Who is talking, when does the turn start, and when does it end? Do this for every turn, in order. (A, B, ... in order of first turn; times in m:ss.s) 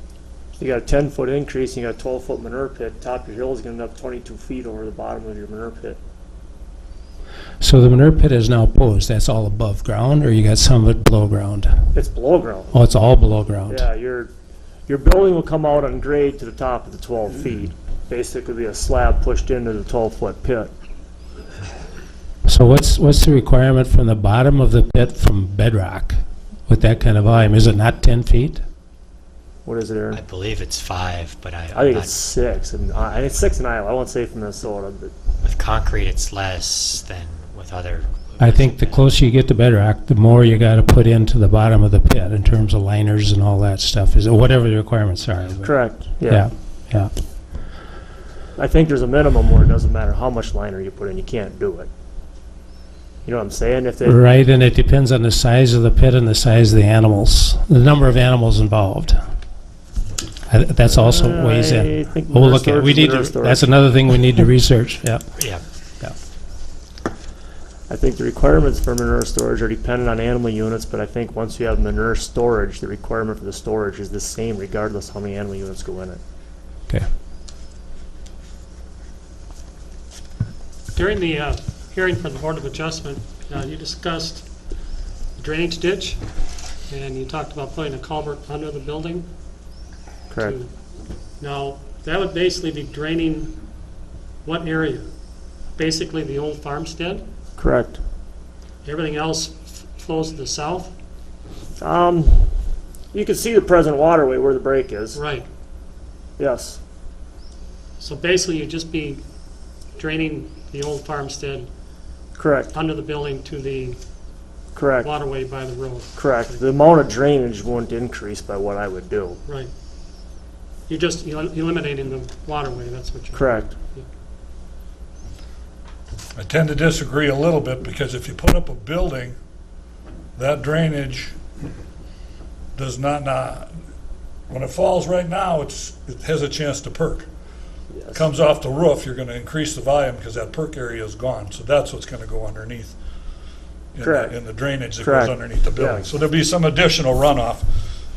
0:00.6-0:06.0 A
0:07.6-0:11.9 B
0:11.9-0:12.7 A
0:12.7-0:13.8 B
0:13.7-0:14.3 A
0:14.9-0:20.7 A
0:22.4-0:28.6 B
0:29.6-0:30.2 A
0:30.1-0:32.1 C
0:31.7-0:35.1 A
0:35.4-0:39.0 C
0:38.4-0:47.1 B
0:45.6-0:46.5 A
0:48.6-0:51.9 A
0:53.2-0:54.2 A
0:54.0-0:59.2 B
1:00.5-1:05.4 B
1:00.8-1:03.7 A
1:05.4-1:05.6 C
1:07.9-1:16.2 A
1:20.9-1:24.5 D
1:25.4-1:26.2 D
1:26.9-1:29.3 D
1:30.3-1:30.6 A
1:30.4-1:30.7 D
1:31.4-1:33.6 D
1:34.4-1:35.1 D
1:35.7-1:37.2 D
1:37.6-1:38.0 A
1:38.8-1:40.9 D
1:41.8-1:45.2 A
1:45.1-1:45.4 D
1:46.4-1:46.8 A
1:48.0-1:49.2 D
1:49.9-1:51.7 D
1:52.4-1:52.7 A
1:52.7-1:54.0 D
1:54.7-1:55.1 A
1:55.0-1:56.6 D
1:56.1-1:59.4 A
1:59.4-1:59.7 D
2:00.9-2:04.0 D
2:03.3-2:03.7 A
2:06.4-2:09.4 E
2:10.4-2:11.4 E
2:12.8-2:13.7 E
2:14.5-2:17.3 E
2:17.9-2:18.2 A
2:18.1-2:23.0 E
2:23.9-2:27.7 E
2:24.0-2:24.4 A
2:25.0-2:26.1 A